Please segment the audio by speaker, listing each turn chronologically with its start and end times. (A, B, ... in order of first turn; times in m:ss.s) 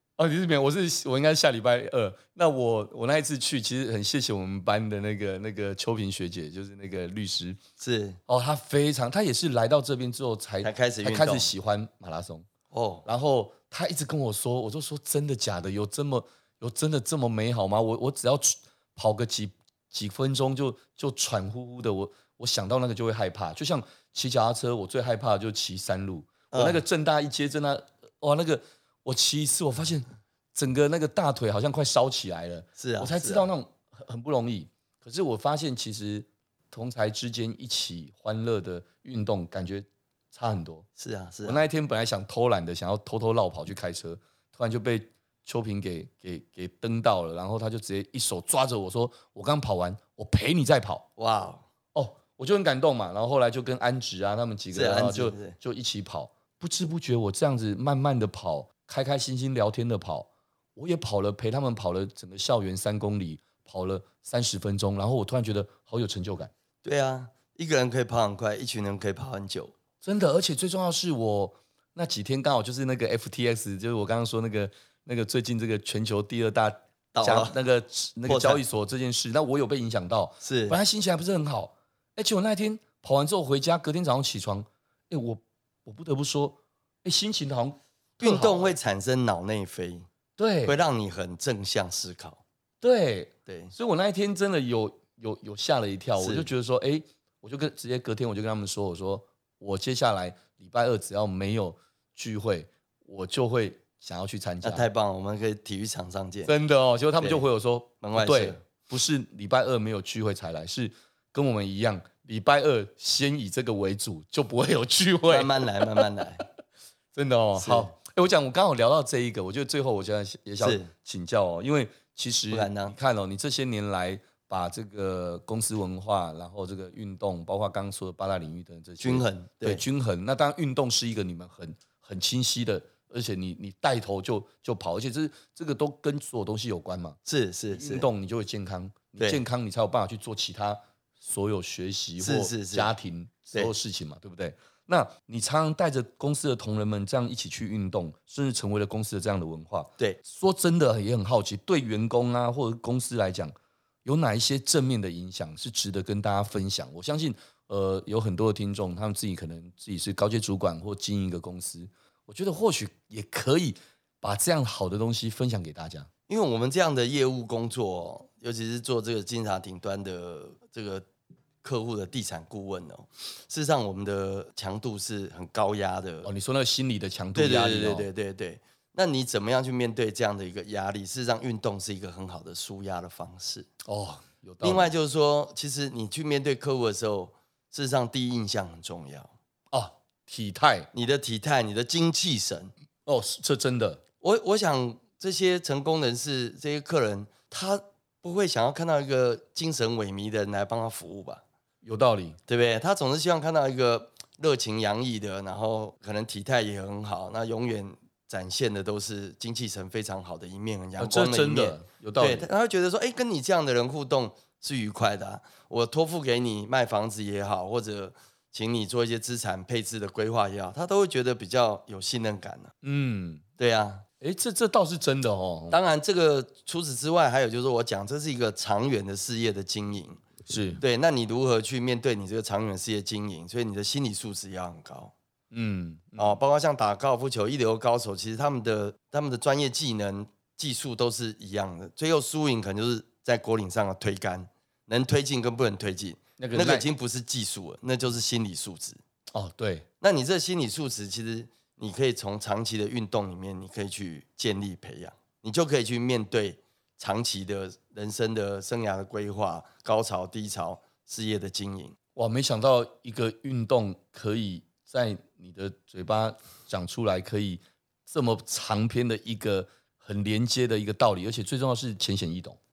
0:00.2-0:07.6 A
0:07.8-0:08.2 B
0:08.3-0:12.5 A
0:10.6-0:11.5 B
0:12.7-0:13.0 B
0:13.0-0:40.8 A
0:26.5-0:26.8 B
0:32.8-0:33.5 B
0:41.0-0:41.6 B
0:41.4-0:51.0 A
0:51.2-0:51.7 B
0:51.9-1:06.5 A
0:54.7-0:55.5 B
1:06.8-1:09.7 B
1:10.0-1:28.7 A
1:17.1-1:17.6 B
1:18.3-1:18.6 B
1:20.4-1:20.8 B
1:28.2-1:30.1 B
1:30.4-1:30.8 A
1:30.6-1:32.4 B
1:32.8-1:44.8 A
1:33.5-1:33.7 B
1:36.2-1:36.5 B
1:44.6-1:46.5 B
1:46.4-1:56.1 A
1:47.2-1:47.4 B
1:48.0-1:48.6 B
1:55.3-1:56.4 B
1:57.1-2:17.2 A
1:57.6-1:57.9 B
2:00.6-2:00.9 B
2:02.5-2:03.0 B
2:09.0-2:09.8 B
2:17.2-2:18.1 B
2:17.8-2:33.5 A
2:19.2-2:19.4 B
2:22.2-2:22.9 B
2:34.0-2:46.1 A
2:46.3-2:51.0 B
2:51.6-2:56.3 B
2:56.2-2:58.1 A
2:57.3-3:03.7 B
3:03.8-3:04.9 A
3:04.6-3:09.3 B
3:09.7-3:10.9 A
3:10.9-3:12.7 B
3:13.0-3:14.0 A
3:14.2-3:21.4 B
3:21.8-3:22.4 A
3:22.5-3:42.7 B
3:31.0-3:32.5 A
3:42.8-3:43.4 A
3:43.6-3:44.0 B
3:44.2-3:45.8 A
3:45.7-3:50.2 B
3:50.5-3:50.8 A
3:50.8-3:55.1 B
3:55.5-3:56.4 A
3:56.2-4:09.0 B
4:06.4-4:06.8 A
4:09.3-4:09.9 A
4:10.0-4:21.9 B
4:22.2-4:32.6 A